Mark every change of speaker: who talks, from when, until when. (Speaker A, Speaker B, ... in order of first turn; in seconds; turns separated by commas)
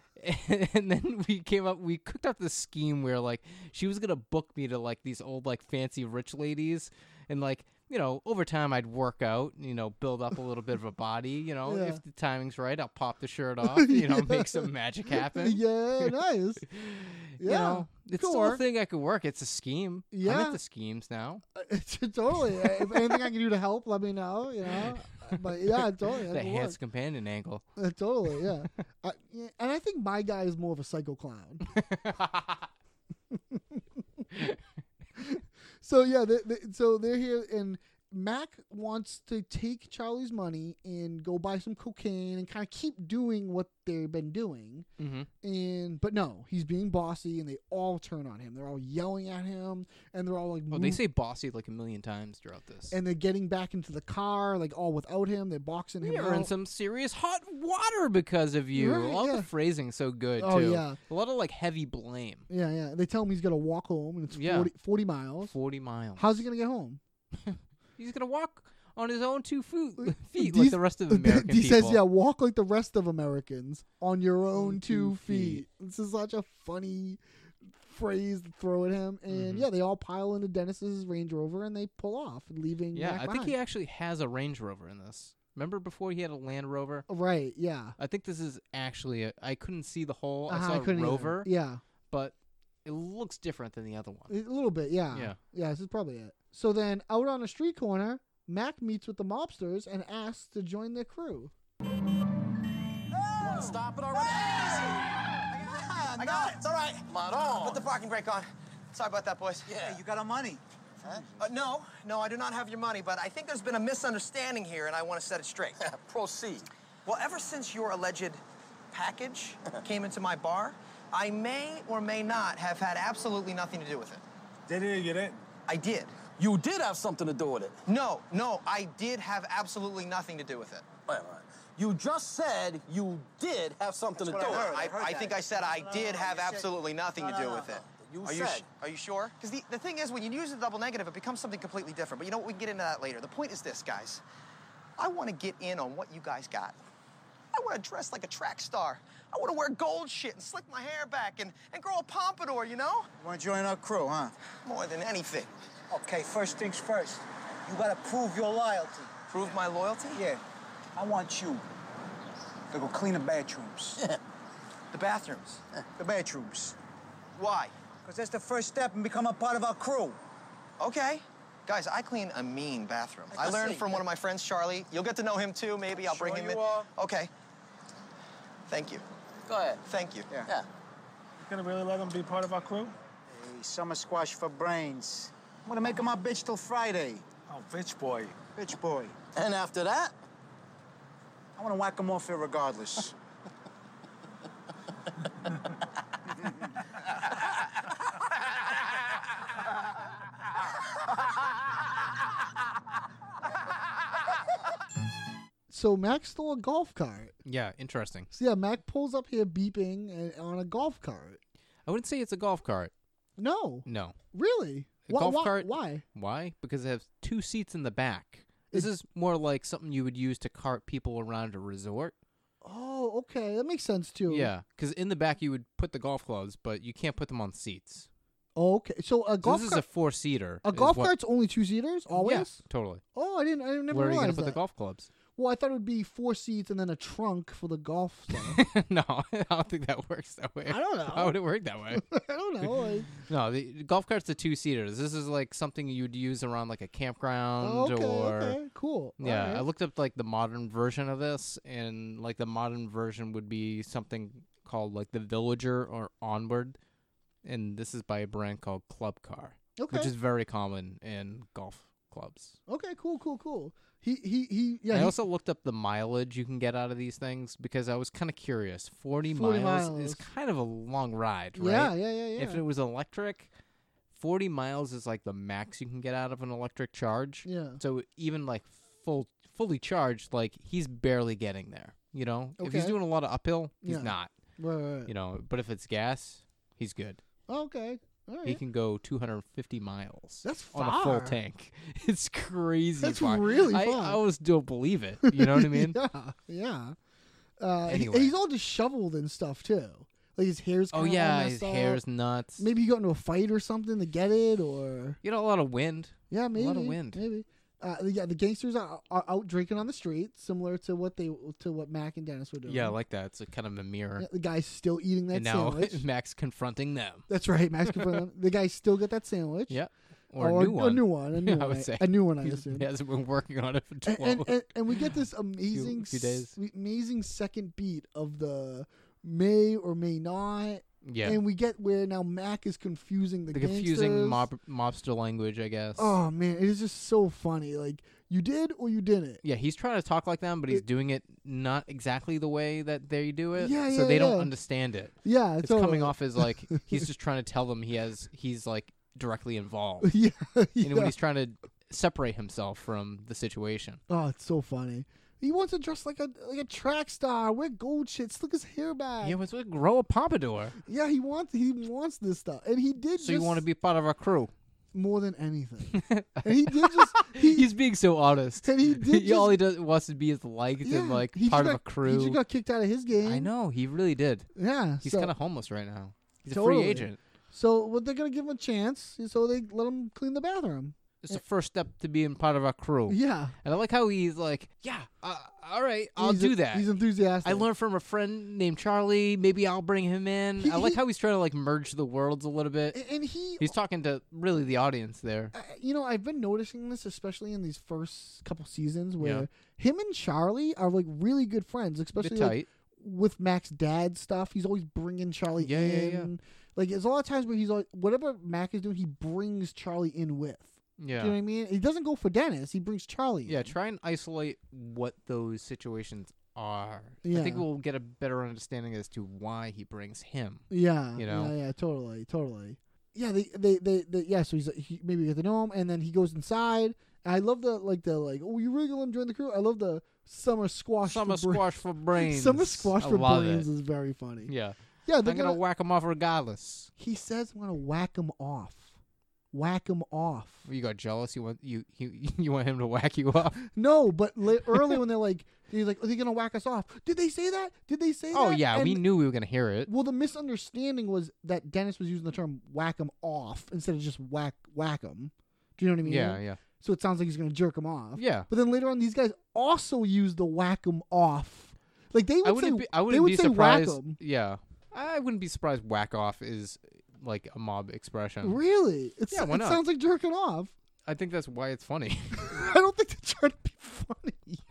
Speaker A: 0.2-16.1, Speaker B: 11.6-12.0, Speaker B: 13.6-16.6, Speaker A: 16.6-21.4, Speaker B: 17.4-18.6, Speaker B: 20.1-20.6, Speaker B: 21.5-26.8, Speaker A: 24.8-27.6, Speaker B: 27.8-31.6, Speaker A: 31.7-32.7, Speaker B: 33.3-33.8, Speaker A: 34.3-34.6, Speaker B: 35.2-44.9, Speaker A: 45.0-45.3, Speaker B: 45.4-51.0, Speaker A: 50.7-53.0, Speaker B: 52.9-56.5, Speaker A: 56.0-62.5, Speaker B: 58.7-59.5, Speaker B: 60.4-61.0, Speaker B: 62.5-65.5, Speaker A: 64.3-64.7, Speaker A: 65.4-66.4, Speaker B: 66.2-67.0, Speaker A: 67.4-72.0, Speaker B: 70.0-83.6, Speaker A: 74.5-75.6, Speaker A: 79.3-79.7, Speaker A: 82.9-87.1, Speaker B: 87.1-88.0, Speaker A: 88.0-91.5, Speaker B: 90.5-91.8, Speaker A: 92.1-94.3, Speaker B: 94.3-101.5, Speaker A: 95.1-95.4, Speaker C: 103.3-107.0, Speaker D: 103.4-104.9, Speaker E: 106.1-106.6, Speaker D: 107.1-107.9, Speaker E: 107.5-109.8, Speaker D: 109.7-110.0, Speaker C: 109.8-111.2, Speaker E: 111.4-115.8, Speaker D: 115.8-116.7, Speaker E: 117.1-118.4, Speaker E: 118.9-124.2, Speaker F: 124.7-125.4, Speaker E: 125.7-126.2, Speaker D: 126.4-127.8, Speaker E: 127.9-130.8, Speaker D: 131.1-134.7, Speaker C: 134.1-138.6, Speaker E: 134.3-144.2, Speaker E: 145.0-146.8, Speaker E: 147.5-153.1, Speaker C: 153.2-154.3, Speaker E: 154.6-155.5, Speaker C: 155.9-159.1, Speaker E: 159.3-160.2, Speaker C: 160.1-160.4, Speaker C: 160.9-161.6, Speaker C: 162.7-164.0, Speaker E: 164.9-165.6, Speaker C: 166.0-166.8, Speaker E: 167.3-167.7, Speaker C: 168.0-170.2, Speaker E: 170.8-177.3, Speaker C: 173.3-174.0, Speaker D: 176.3-176.8, Speaker E: 178.7-179.0, Speaker D: 179.5-179.8, Speaker E: 179.8-180.3, Speaker F: 181.4-182.9, Speaker C: 183.3-187.2, Speaker F: 187.5-188.4, Speaker C: 188.6-189.2, Speaker D: 189.3-190.1, Speaker C: 191.6-193.1, Speaker B: 205.7-207.3, Speaker A: 207.4-208.3, Speaker B: 208.3-211.4, Speaker A: 211.8-212.9, Speaker B: 213.4-216.0, Speaker A: 213.8-214.2, Speaker A: 215.1-222.1, Speaker B: 222.6-224.5, Speaker A: 224.3-228.1, Speaker B: 228.6-229.8, Speaker A: 229.4-231.1, Speaker B: 230.6-232.6, Speaker A: 232.1-233.0, Speaker B: 233.1-234.6, Speaker A: 233.9-235.1, Speaker B: 235.3-238.6, Speaker A: 238.3-242.1, Speaker B: 240.7-241.4, Speaker B: 241.9-243.1, Speaker A: 242.6-248.6, Speaker B: 247.6-249.6, Speaker A: 249.2-256.8, Speaker A: 257.4-262.6, Speaker B: 259.8-260.1, Speaker B: 262.7-265.1, Speaker A: 264.9-273.5, Speaker B: 269.3-270.2, Speaker B: 271.6-272.6, Speaker A: 274.1-284.3, Speaker B: 277.4-277.8, Speaker B: 282.6-283.0, Speaker B: 283.8-285.1, Speaker A: 285.1-287.2, Speaker B: 287.5-288.6, Speaker A: 288.4-296.0, Speaker B: 290.4-291.4, Speaker B: 293.0-294.2, Speaker B: 295.2-296.9, Speaker B: 297.6-302.0, Speaker A: 297.9-298.3, Speaker A: 300.9-302.6, Speaker B: 302.6-305.2, Speaker A: 305.2-307.2, Speaker B: 306.3-312.9, Speaker A: 312.6-314.3, Speaker B: 314.2-316.0, Speaker A: 315.3-317.3, Speaker B: 317.3-319.8, Speaker A: 317.9-318.2, Speaker A: 319.7-325.1, Speaker B: 320.4-322.9, Speaker B: 324.0-334.4, Speaker A: 325.6-326.6, Speaker A: 331.0-331.4, Speaker A: 333.5-336.1, Speaker B: 336.0-339.4, Speaker A: 339.4-350.1, Speaker B: 343.6-344.5, Speaker B: 345.2-347.1, Speaker B: 350.0-351.1, Speaker A: 350.8-354.0, Speaker B: 354.1-359.4, Speaker A: 359.2-360.8, Speaker B: 360.9-363.6, Speaker A: 363.2-364.5, Speaker B: 364.9-367.7, Speaker A: 365.9-372.4, Speaker B: 368.6-369.6, Speaker B: 370.8-373.5, Speaker A: 373.2-374.5, Speaker B: 374.6-375.3, Speaker A: 375.0-377.2, Speaker B: 376.5-381.4, Speaker A: 381.2-386.9, Speaker B: 383.1-383.6, Speaker B: 386.2-387.7, Speaker A: 387.4-393.0, Speaker B: 390.6-391.0, Speaker B: 392.9-393.7, Speaker A: 393.6-395.6, Speaker B: 395.5-413.7, Speaker A: 399.2-399.5, Speaker A: 402.2-402.7, Speaker A: 405.6-406.3, Speaker A: 411.0-411.4, Speaker A: 413.4-421.5, Speaker B: 417.2-417.6, Speaker B: 420.7-434.5, Speaker A: 431.0-433.7, Speaker A: 434.5-436.9, Speaker B: 435.1-435.6, Speaker B: 437.0-438.9, Speaker B: 439.5-440.7, Speaker A: 440.7-443.7, Speaker B: 443.6-449.1, Speaker A: 448.3-449.9, Speaker B: 449.9-464.2, Speaker A: 456.0-456.6, Speaker A: 458.1-458.5, Speaker A: 462.4-468.6, Speaker B: 468.4-470.7, Speaker A: 469.3-469.8, Speaker A: 471.1-472.6, Speaker B: 472.4-474.6